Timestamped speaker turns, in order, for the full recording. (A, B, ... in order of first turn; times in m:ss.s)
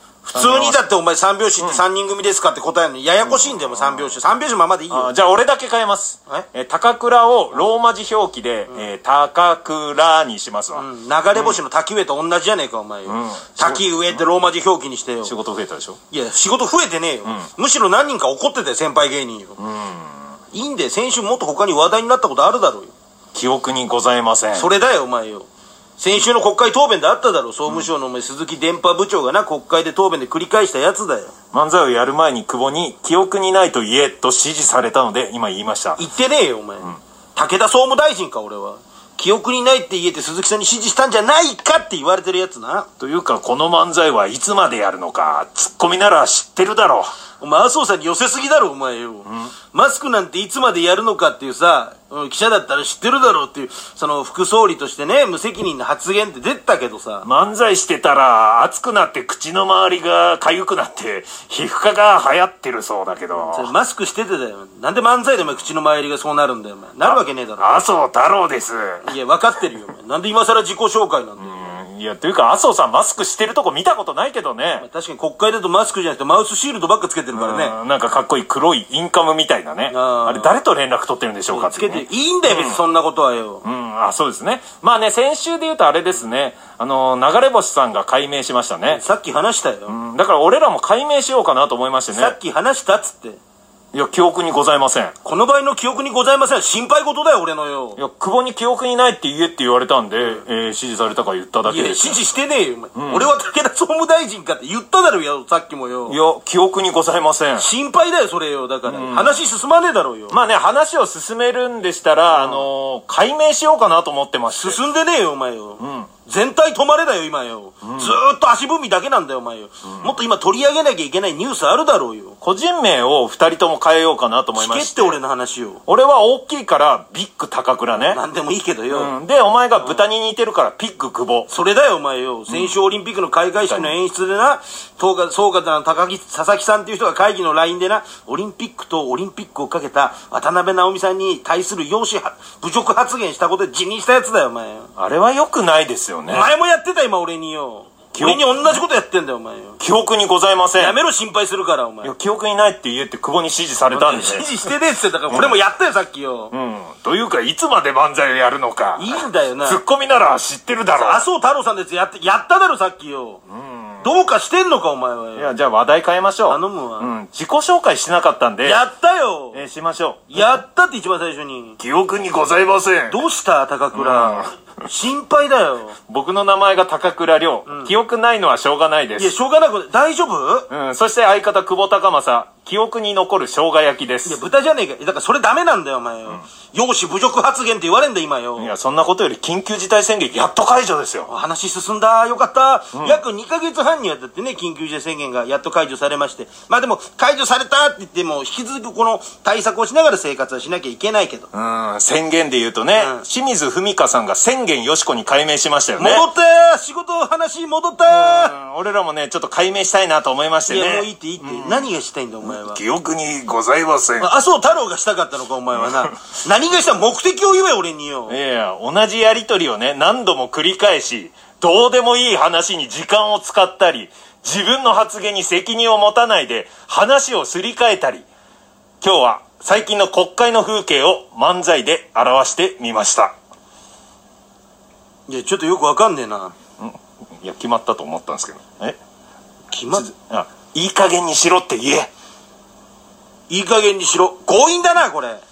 0:00.2-0:05.1 A
0:00.3-0:00.8 B
0:03.2-0:04.1 B
0:04.9-0:10.8 B
0:10.7-0:15.3 A
0:13.0-0:14.0 B
0:15.2-0:16.0 B
0:16.1-0:19.6 A
0:19.6-0:20.2 B
0:20.5-0:22.9 A
0:23.3-0:24.7 B
0:24.5-0:31.3 A
0:31.5-0:36.0 B
0:36.0-0:42.9 A
0:43.0-0:47.1 B
0:47.4-0:57.2 A
0:49.2-0:49.5 B
0:57.2-1:03.7 B
1:03.3-1:07.8 A
1:07.0-1:09.1 B
1:09.0-1:11.8 A
1:11.4-1:14.8 B
1:14.8-1:17.8 A
1:17.3-1:22.8 B
1:19.9-1:20.5 A
1:21.5-1:23.6 A
1:23.6-1:29.0 B
1:28.9-1:29.9 A
1:29.9-1:32.4 B
1:32.1-1:33.4 A
1:33.9-1:35.1 B
1:35.2-1:38.0 A
1:38.0-1:42.2 B
1:41.7-1:46.2 A
1:43.0-1:43.3 B
1:46.1-1:47.7 B
1:47.6-1:50.4 A
1:48.8-1:49.4 B
1:50.3-1:54.8 B
1:52.3-1:52.7 A
1:54.5-2:02.4 A
1:55.8-1:56.1 B
1:57.8-1:58.2 B
1:59.9-2:00.1 B
2:02.4-2:05.2 B
2:04.6-2:05.8 A
2:05.9-2:08.2 B
2:07.9-2:09.1 A
2:08.9-2:11.5 B
2:11.5-2:24.9 A
2:12.5-2:12.7 B
2:13.7-2:13.9 B
2:25.0-2:26.5 B
2:26.3-2:29.8 A
2:28.1-2:28.8 B
2:29.8-2:31.0 B
2:30.8-2:32.1 A
2:32.0-2:34.7 B
2:33.9-2:36.5 A
2:35.3-2:35.6 B
2:36.5-2:41.2 B
2:39.0-2:39.8 A
2:40.9-2:43.4 A
2:43.5-2:44.1 B
2:44.0-2:45.5 A
2:45.4-2:48.8 B
2:46.5-2:47.1 A
2:48.6-2:49.6 A
2:49.5-2:50.6 B
2:50.3-2:51.8 A
2:51.8-2:53.2 B
2:53.1-2:56.0 A
2:53.9-2:54.5 B
2:56.1-2:59.3 B
2:57.7-2:57.9 A
2:59.2-3:00.7 A
3:00.7-3:04.4 B
3:04.2-3:08.7 A
3:08.6-3:11.3 B
3:11.3-3:21.5 A
3:13.0-3:13.2 B
3:21.5-3:26.2 B
3:23.0-3:23.2 A
3:26.0-3:28.5 A
3:28.1-3:31.9 B
3:30.7-3:32.8 A
3:32.4-3:34.3 B
3:34.2-3:38.4 A
3:35.8-3:36.0 B
3:38.3-3:48.3 B
3:49.0-3:53.3 B
3:55.3-3:56.5 A
3:56.8-3:59.0 B
3:59.7-4:00.1 A
3:59.9-4:02.1 B
4:03.5-4:05.4 A